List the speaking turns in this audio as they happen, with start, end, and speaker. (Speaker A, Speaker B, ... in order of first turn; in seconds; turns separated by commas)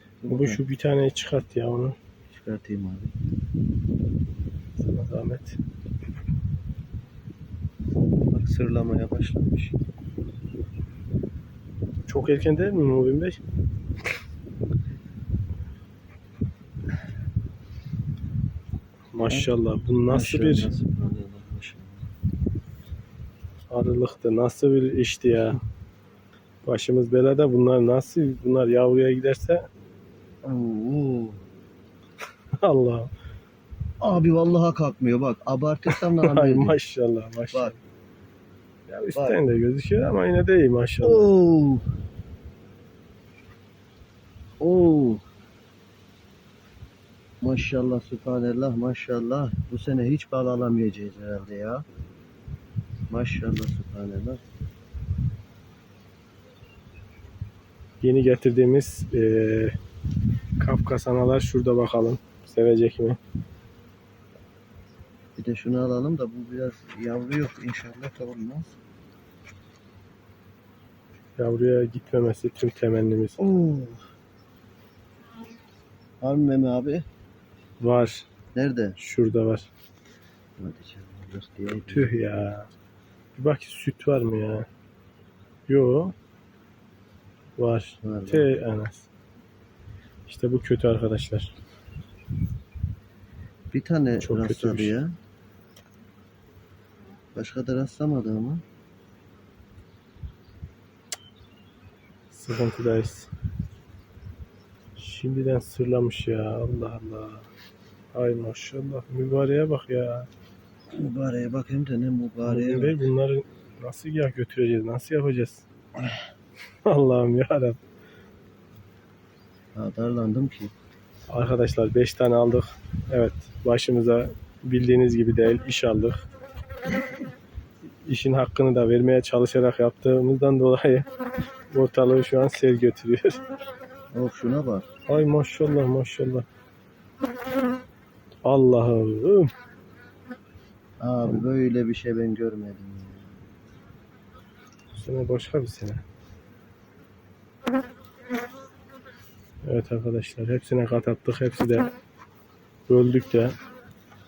Speaker A: 0.2-0.6, Speaker B: 0.3-2.0, Speaker A: 2.3-3.1, Speaker B: 4.8-5.6, Speaker A: 8.3-9.8, Speaker B: 12.1-13.4, Speaker B: 19.1-20.7, Speaker A: 20.1-22.1, Speaker B: 23.7-25.6, Speaker B: 26.6-29.6, Speaker A: 30.4-31.4, Speaker B: 32.6-33.1, Speaker A: 34.0-36.8, Speaker B: 35.9-37.8, Speaker B: 38.9-41.3, Speaker A: 39.1-39.4, Speaker A: 41.0-41.9, Speaker A: 44.6-45.2, Speaker A: 47.4-51.9, Speaker A: 53.1-54.4, Speaker B: 58.0-59.8, Speaker B: 60.6-63.2, Speaker A: 65.4-68.7, Speaker B: 71.4-73.4, Speaker A: 73.4-74.0, Speaker A: 76.2-77.1, Speaker B: 77.8-78.3, Speaker A: 78.5-79.0, Speaker B: 79.0-79.7, Speaker A: 80.6-82.5, Speaker B: 81.9-82.7, Speaker B: 83.4-84.7, Speaker B: 85.7-86.1, Speaker B: 87.6-89.1, Speaker A: 88.0-88.5, Speaker B: 90.3-91.5, Speaker A: 93.7-95.1, Speaker B: 94.2-94.9, Speaker A: 97.3-98.6, Speaker B: 102.3-103.3, Speaker B: 105.0-107.5, Speaker B: 108.1-110.3, Speaker A: 110.9-113.0, Speaker B: 112.5-115.7, Speaker B: 116.8-117.8, Speaker A: 119.8-120.7, Speaker B: 121.3-126.3, Speaker B: 128.1-131.1, Speaker B: 131.7-133.4, Speaker A: 134.1-134.9, Speaker B: 135.1-136.5, Speaker B: 138.4-139.5, Speaker A: 141.0-143.4, Speaker B: 144.9-146.0, Speaker B: 149.7-151.9, Speaker B: 152.9-153.5